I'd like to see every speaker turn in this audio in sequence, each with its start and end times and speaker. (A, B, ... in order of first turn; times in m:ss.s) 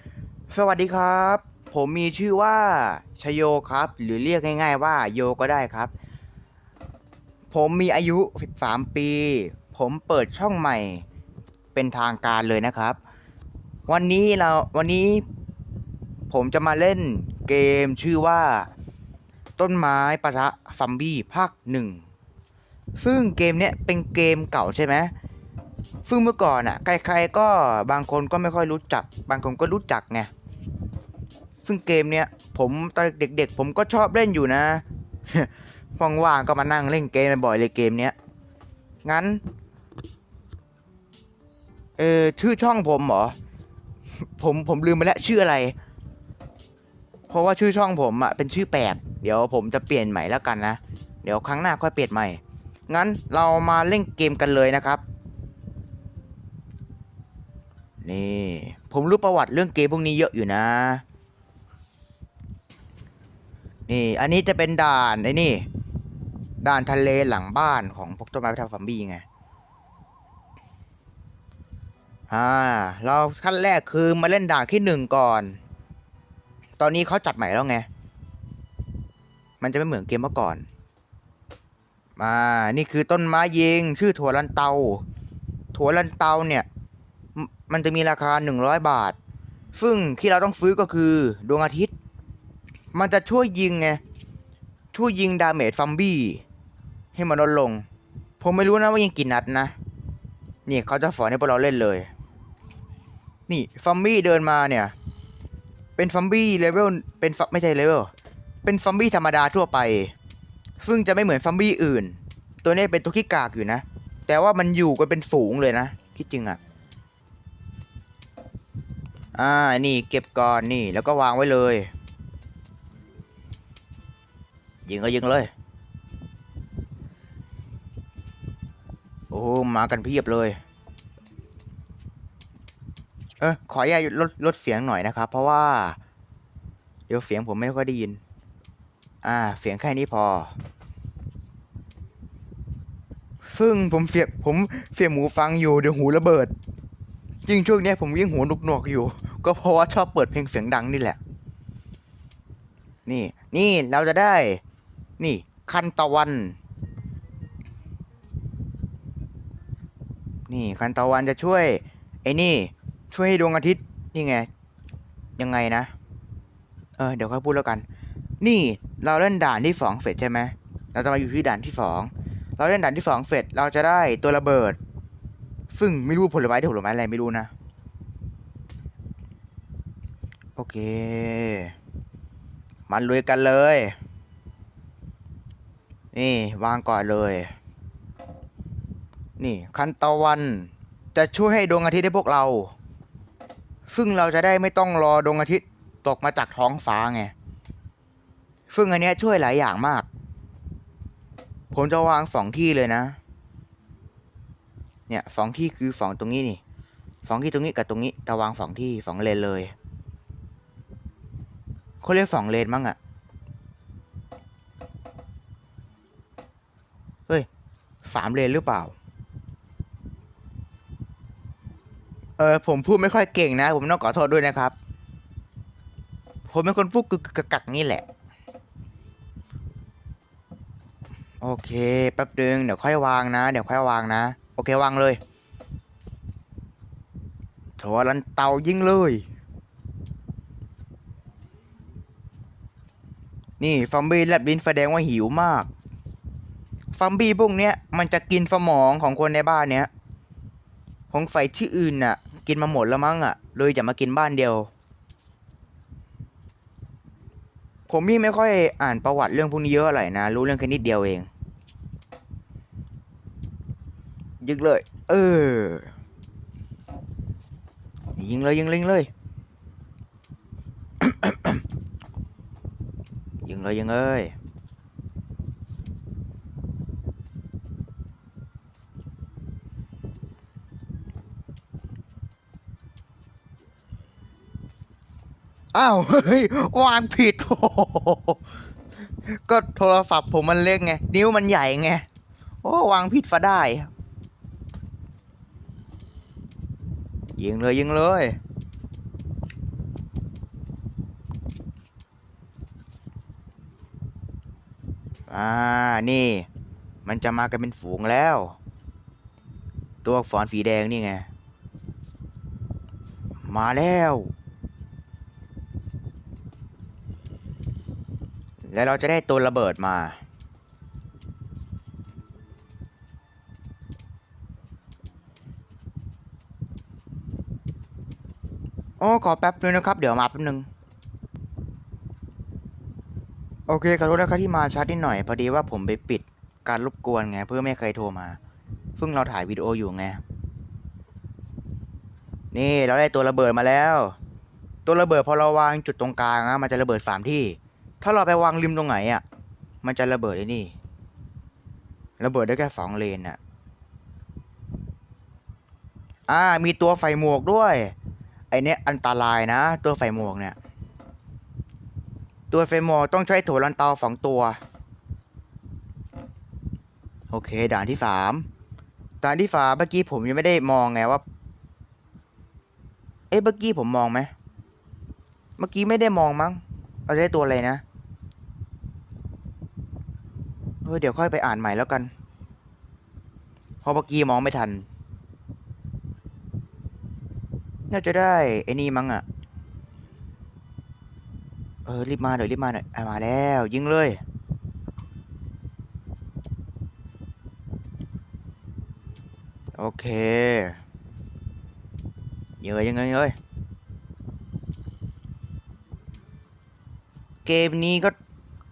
0:00.5-0:05.9 A
0:07.5-0:11.0 A
0:11.7-0:13.0 A
0:13.9-0:15.2 A
0:16.3-0:18.7 A
0:19.6-0:22.1 A
0:23.0-0:25.1 A
0:26.1-0:30.3 A
0:31.6-0:38.2 A
0:39.0-0:39.4 A
0:42.0-0:43.4 A
0:44.2-0:45.8 A
0:47.3-0:55.0 A
0:58.0-1:01.0 A
1:03.9-1:05.7 A
1:06.6-1:09.2 A
1:12.3-1:15.6 A
1:16.8-1:17.9 A
1:19.6-1:20.7 A
1:22.2-1:25.0 A
1:25.7-1:26.7 A
1:27.4-1:29.2 A
1:29.7-1:31.9 A
1:32.9-1:34.0 A
1:34.9-1:36.4 A
1:37.2-1:37.8 A
1:38.4-1:39.8 A
1:40.6-1:42.1 A
1:43.5-1:45.0 A
1:46.0-1:48.1 A
1:48.6-1:50.1 A
1:50.8-1:56.6 A
1:59.4-2:01.9 A
2:04.9-2:05.5 A
2:09.3-2:10.6 A
2:13.4-2:16.0 A
2:17.1-2:18.2 A
2:19.2-2:20.6 A
2:23.4-2:26.5 A
2:27.5-2:31.2 A
2:33.1-2:34.6 A
2:35.2-2:36.6 A
2:40.5-2:44.5 A
2:45.4-2:45.9 A
2:47.0-2:47.8 A
2:48.4-2:54.8 A
2:55.7-2:57.5 A
3:00.6-3:01.7 A
3:02.9-3:04.0 A
3:06.1-3:07.5 A
3:09.4-3:12.7 A
3:13.9-3:17.3 A
3:18.7-3:20.1 A
3:21.7-3:23.2 A
3:25.1-3:26.6 A
3:27.2-3:29.7 A
3:32.0-3:33.0 A
3:38.0-3:38.9 A
3:42.4-3:44.8 A
3:46.5-3:48.0 A
3:51.4-3:55.2 A
3:57.8-3:59.2 A
4:03.6-4:05.7 A
4:06.9-4:09.9 A
4:11.1-4:14.7 A
4:17.9-4:21.3 A
4:24.4-4:25.9 A
4:28.2-4:29.1 A
4:31.0-4:31.6 A
4:33.5-4:34.4 A
4:45.7-4:48.4 A
4:49.2-4:52.1 A
4:52.6-4:53.9 A
4:57.4-4:58.4 A
5:05.3-5:06.5 A
5:07.0-5:08.6 A
5:10.0-5:11.3 A
5:13.4-5:14.3 A
5:18.6-5:20.2 A
5:29.0-5:30.7 A
5:33.7-5:38.4 A
5:39.0-5:40.2 A
5:42.5-5:44.2 A
5:44.9-5:49.2 A
5:49.8-5:50.8 A
5:52.2-5:53.4 A
5:56.3-5:57.9 A
5:58.5-6:00.6 A
6:02.5-6:04.6 A
6:07.3-6:08.5 A
6:09.2-6:11.2 A
6:13.3-6:14.3 A
6:15.6-6:17.8 A
6:20.8-6:22.1 A
6:23.8-6:24.9 A
6:27.9-6:29.2 A
6:31.9-6:34.2 A
6:39.8-6:40.8 A
6:42.6-6:43.4 A
6:47.4-6:48.2 A